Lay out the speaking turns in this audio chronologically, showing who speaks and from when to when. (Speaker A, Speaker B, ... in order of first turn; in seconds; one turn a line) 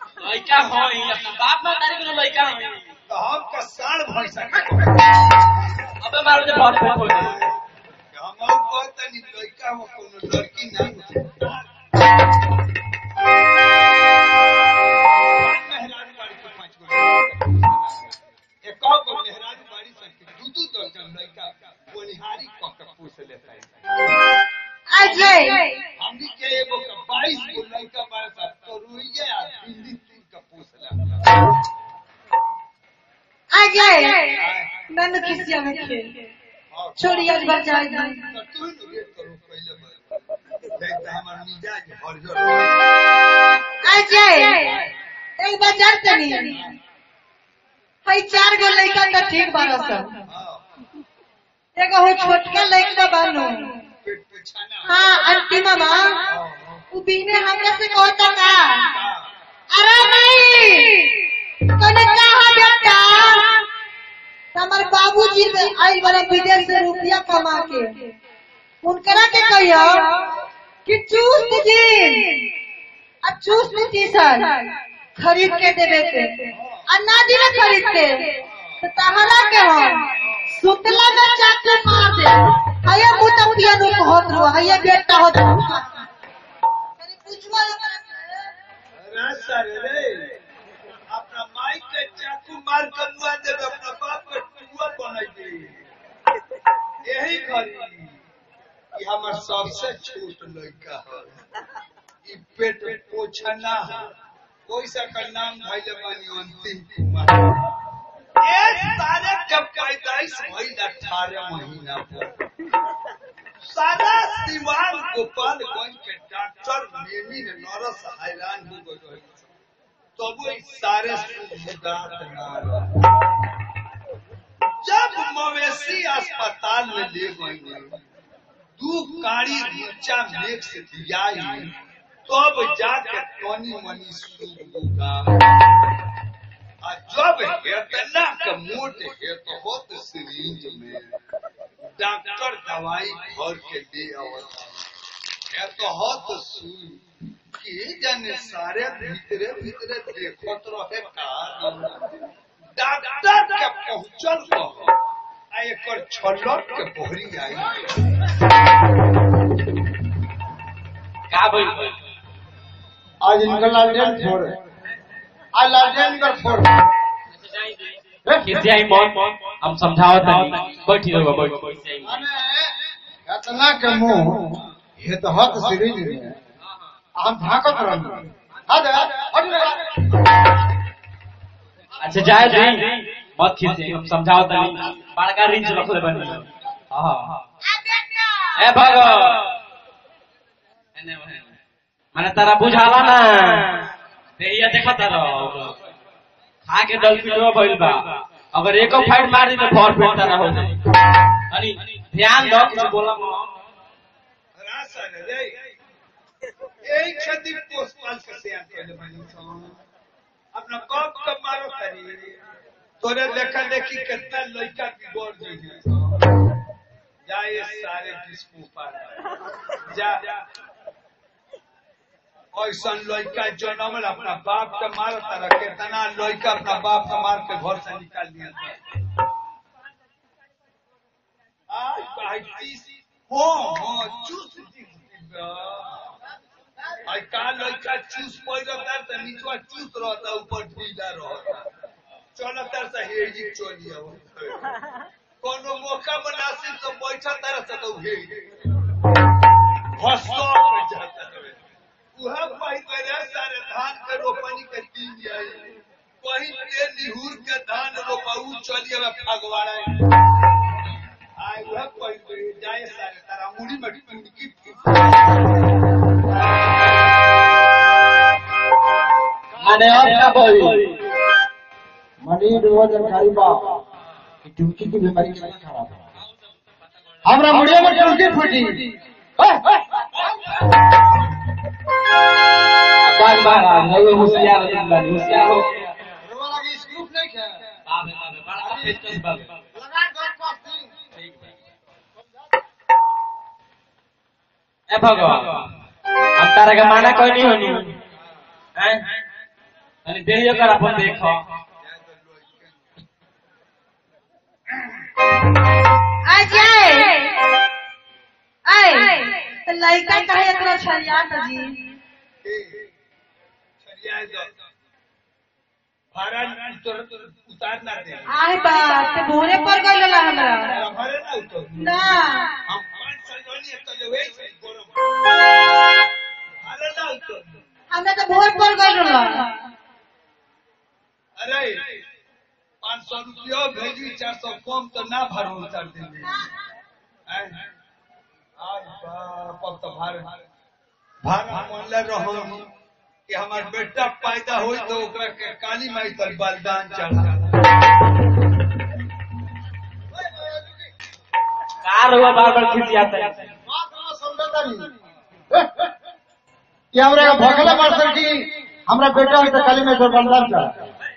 Speaker A: 0.2-2.8
Speaker B: 3.1-5.3
Speaker A: 6.0-7.3
Speaker B: 7.0-7.6
Speaker B: 8.1-11.7
Speaker B: 15.3-24.0
Speaker C: 24.9-25.8
Speaker B: 25.0-25.4
Speaker B: 26.0-31.4
Speaker C: 33.5-36.2
Speaker B: 34.4-34.7
Speaker B: 36.7-37.5
Speaker C: 37.0-38.2
Speaker B: 38.2-42.8
Speaker C: 43.8-46.8
Speaker C: 48.1-50.2
Speaker B: 50.3-50.6
Speaker C: 51.8-53.8
Speaker B: 54.0-54.9
Speaker C: 54.9-56.2
Speaker B: 56.3-56.9
Speaker C: 56.9-58.9
Speaker B: 58.9-59.3
Speaker C: 59.7-63.6
Speaker C: 64.5-68.0
Speaker C: 68.8-72.5
Speaker C: 73.2-86.0
Speaker B: 76.6-76.9
Speaker B: 78.4-78.8
Speaker C: 87.0-88.5
Speaker B: 89.0-90.3
Speaker B: 91.1-95.8
Speaker B: 97.0-98.2
Speaker B: 98.9-101.4
Speaker B: 102.2-104.1
Speaker B: 104.7-107.5
Speaker B: 108.4-112.3
Speaker B: 113.6-119.5
Speaker B: 120.2-123.0
Speaker B: 124.8-128.0
Speaker B: 128.8-131.7
Speaker B: 132.2-135.4
Speaker B: 136.8-141.2
Speaker B: 141.9-144.8
Speaker B: 145.5-152.0
Speaker B: 152.8-154.9
Speaker B: 155.5-157.7
Speaker A: 161.3-162.0
Speaker D: 163.2-164.6
Speaker D: 165.6-166.8
Speaker D: 168.2-168.8
Speaker A: 168.4-172.1
Speaker D: 172.0-172.7
Speaker D: 173.3-176.4
Speaker D: 177.2-180.2
Speaker A: 182.0-187.4
Speaker C: 187.8-188.2
Speaker A: 188.6-189.4
Speaker A: 191.0-191.4
Speaker A: 192.1-193.8
Speaker A: 194.4-195.8
Speaker A: 196.7-200.8
Speaker A: 201.4-203.4
Speaker B: 204.6-205.5
Speaker B: 206.8-209.8
Speaker B: 210.5-212.4
Speaker B: 213.0-216.4
Speaker B: 217.2-219.2
Speaker B: 219.7-220.2
Speaker B: 222.5-228.8
Speaker B: 231.7-236.0
Speaker B: 237.0-241.7
Speaker B: 242.3-244.8
Speaker B: 245.4-248.4
Speaker B: 250.0-251.6
Speaker B: 252.2-259.9
Speaker B: 261.4-265.5
Speaker D: 269.6-270.8
Speaker A: 269.6-270.9
Speaker D: 272.2-273.8
Speaker D: 274.4-276.0
Speaker D: 277.2-278.9
Speaker D: 279.4-280.2
Speaker A: 283.0-285.9
Speaker D: 286.2-287.6
Speaker A: 287.9-289.5
Speaker D: 288.6-289.1
Speaker D: 289.7-290.9
Speaker A: 294.9-295.7
Speaker A: 296.4-298.0
Speaker A: 298.8-299.0
Speaker A: 300.1-301.4
Speaker B: 301.8-302.8
Speaker C: 306.2-307.5
Speaker C: 308.6-311.8
Speaker B: 312.4-312.9
Speaker B: 313.8-314.5
Speaker B: 316.1-318.3
Speaker C: 318.3-320.8
Speaker B: 320.7-325.1
Speaker C: 321.8-322.6
Speaker B: 326.6-327.6
Speaker C: 327.9-329.5
Speaker B: 331.4-332.0
Speaker B: 332.8-336.4
Speaker B: 337.3-337.5
Speaker B: 338.6-340.3
Speaker B: 341.2-342.7
Speaker B: 343.3-347.7
Speaker A: 351.8-353.5
Speaker D: 353.7-354.9
Speaker D: 355.5-355.9
Speaker D: 356.9-360.7